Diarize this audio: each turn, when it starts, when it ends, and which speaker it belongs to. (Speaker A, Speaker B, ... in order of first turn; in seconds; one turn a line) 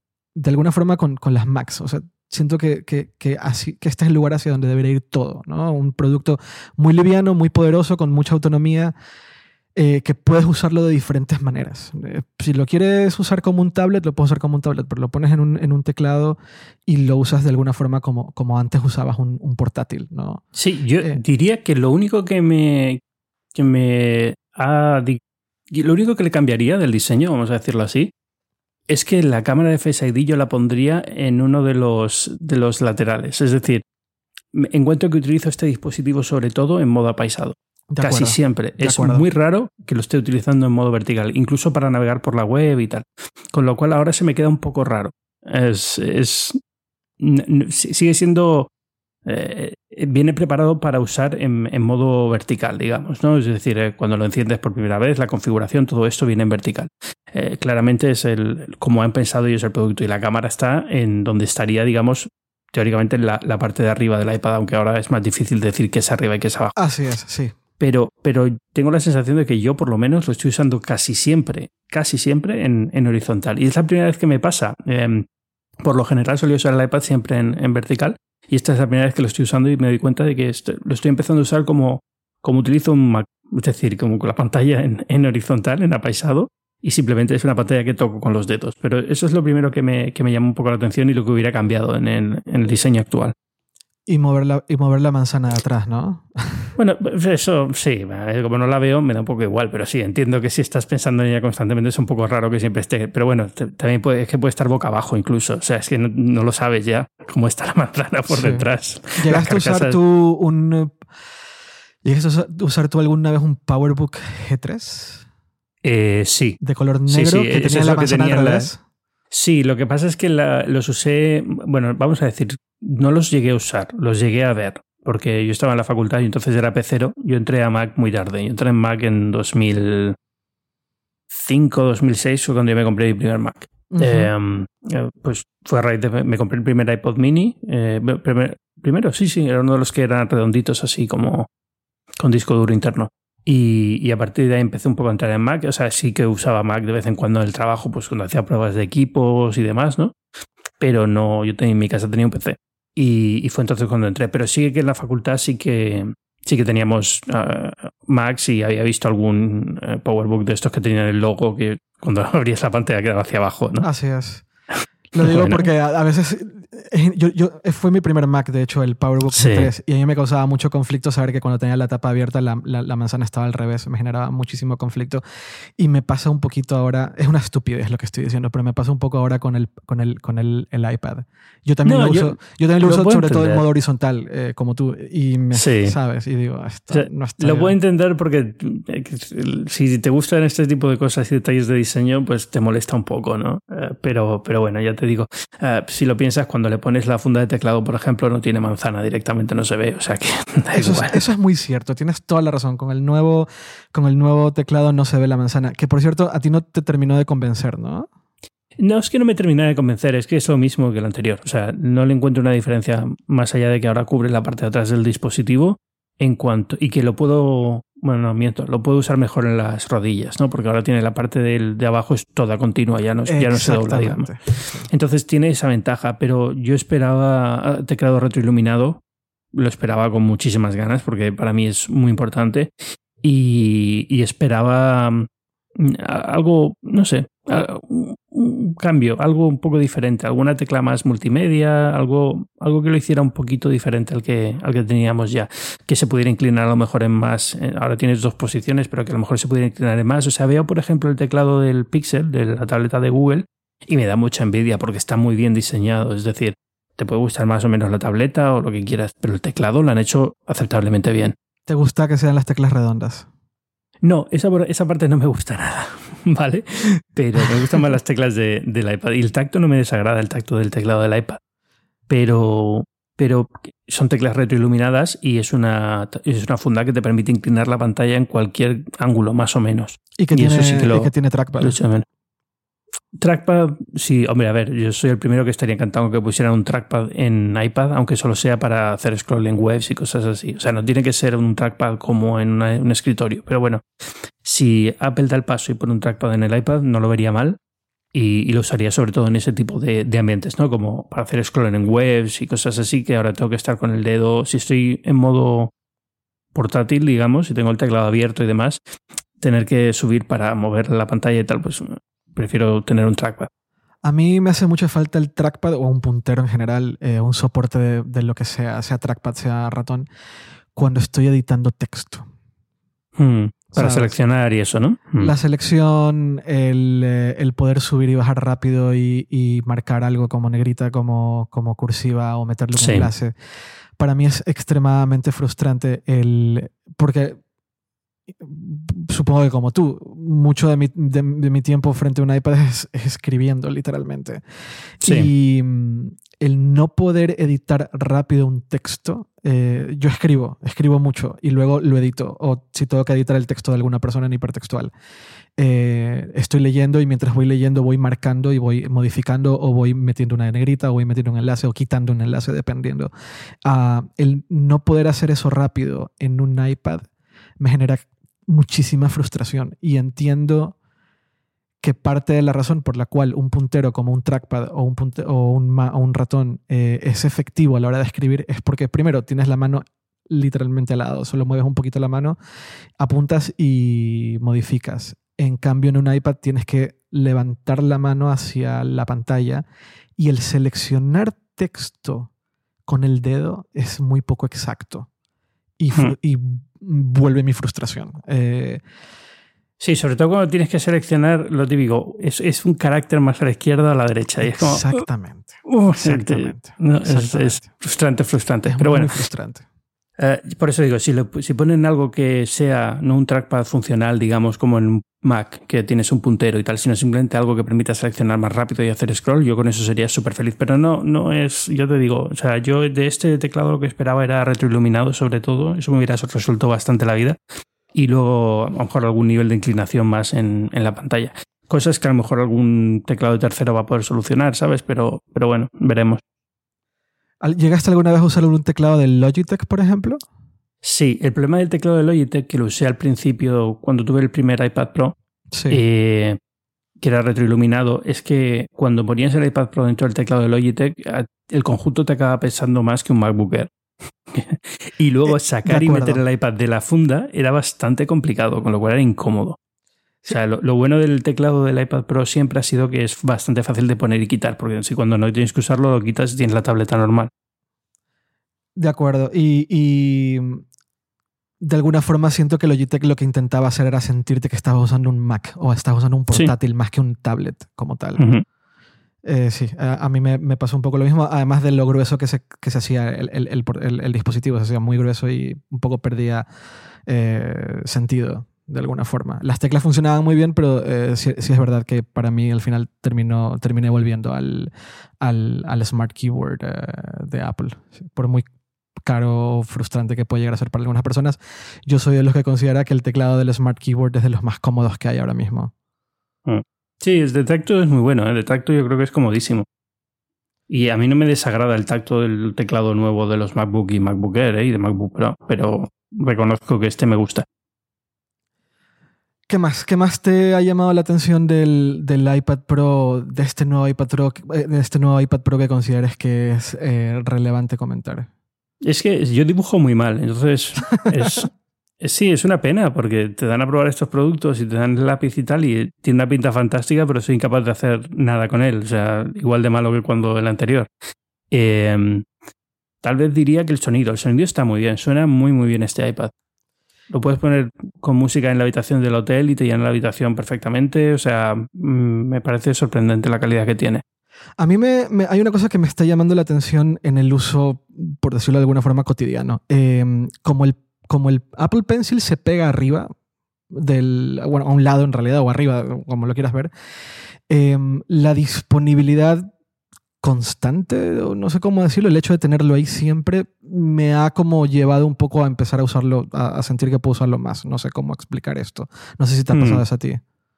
Speaker A: 0.3-8.9
Speaker A: 9.7-20.4
Speaker B: 20.6-23.0
Speaker B: 23.5-25.2
Speaker B: 25.7-28.1
Speaker B: 28.9-33.8
Speaker B: 34.5-46.6
Speaker A: 37.9-39.2
Speaker B: 47.2-48.7
Speaker B: 49.2-66.8
Speaker A: 66.8-67.5
Speaker B: 67.8-75.2
Speaker B: 75.8-93.3
Speaker A: 94.1-96.7
Speaker B: 96.8-110.0
Speaker A: 108.3-111.0
Speaker A: 112.0-115.2
Speaker B: 115.8-118.7
Speaker A: 116.6-118.8
Speaker B: 119.3-130.2
Speaker B: 131.3-141.5
Speaker A: 133.9-134.3
Speaker B: 142.2-150.1
Speaker B: 150.8-163.9
Speaker A: 163.8-164.4
Speaker A: 165.1-175.2
Speaker B: 165.2-165.6
Speaker B: 169.3-169.7
Speaker A: 175.8-187.7
Speaker B: 181.8-183.6
Speaker B: 185.5-185.9
Speaker B: 186.9-201.2
Speaker A: 200.7-208.1
Speaker B: 208.8-229.0
Speaker A: 223.3-224.9
Speaker B: 229.5-232.7
Speaker B: 233.2-261.3
Speaker A: 261.7-263.3
Speaker B: 264.0-271.4
Speaker A: 267.4-267.8
Speaker B: 272.1-282.0
Speaker A: 280.2-281.8
Speaker B: 283.2-293.8
Speaker B: 294.4-297.6
Speaker B: 298.1-305.7
Speaker B: 306.5-308.8
Speaker B: 309.4-313.5
Speaker A: 314.0-320.1
Speaker A: 320.7-322.3
Speaker B: 323.2-325.3
Speaker A: 323.7-324.2
Speaker A: 325.2-333.3
Speaker B: 332.8-333.1
Speaker A: 334.0-337.4
Speaker A: 338.3-344.4
Speaker A: 345.0-354.9
Speaker B: 345.0-345.3
Speaker A: 355.6-363.1
Speaker A: 363.6-367.1
Speaker A: 367.6-370.7
Speaker A: 371.8-382.4
Speaker A: 383.0-389.6
Speaker A: 390.2-392.3
Speaker A: 392.9-395.1
Speaker A: 395.8-398.8
Speaker B: 399.8-405.0
Speaker A: 404.4-407.7
Speaker B: 405.7-409.1
Speaker A: 408.6-409.6
Speaker B: 410.2-427.4
Speaker B: 427.9-436.2
Speaker A: 437.4-440.2
Speaker B: 440.8-445.1
Speaker A: 445.5-445.8
Speaker B: 445.7-446.4
Speaker B: 447.0-453.7
Speaker B: 454.3-459.6
Speaker A: 455.3-456.2
Speaker B: 460.3-467.3
Speaker A: 468.8-470.6
Speaker A: 471.6-478.2
Speaker B: 478.2-478.4
Speaker A: 479.2-486.4
Speaker A: 487.1-498.4
Speaker A: 499.0-505.7
Speaker B: 506.4-509.6
Speaker B: 510.7-517.4
Speaker A: 519.5-528.3
Speaker B: 528.8-531.5
Speaker B: 532.0-540.9
Speaker B: 541.5-542.2
Speaker B: 543.0-546.3
Speaker B: 547.1-554.0
Speaker A: 554.6-563.1
Speaker A: 563.7-566.7
Speaker A: 567.5-569.5
Speaker A: 570.2-580.2
Speaker B: 579.5-579.8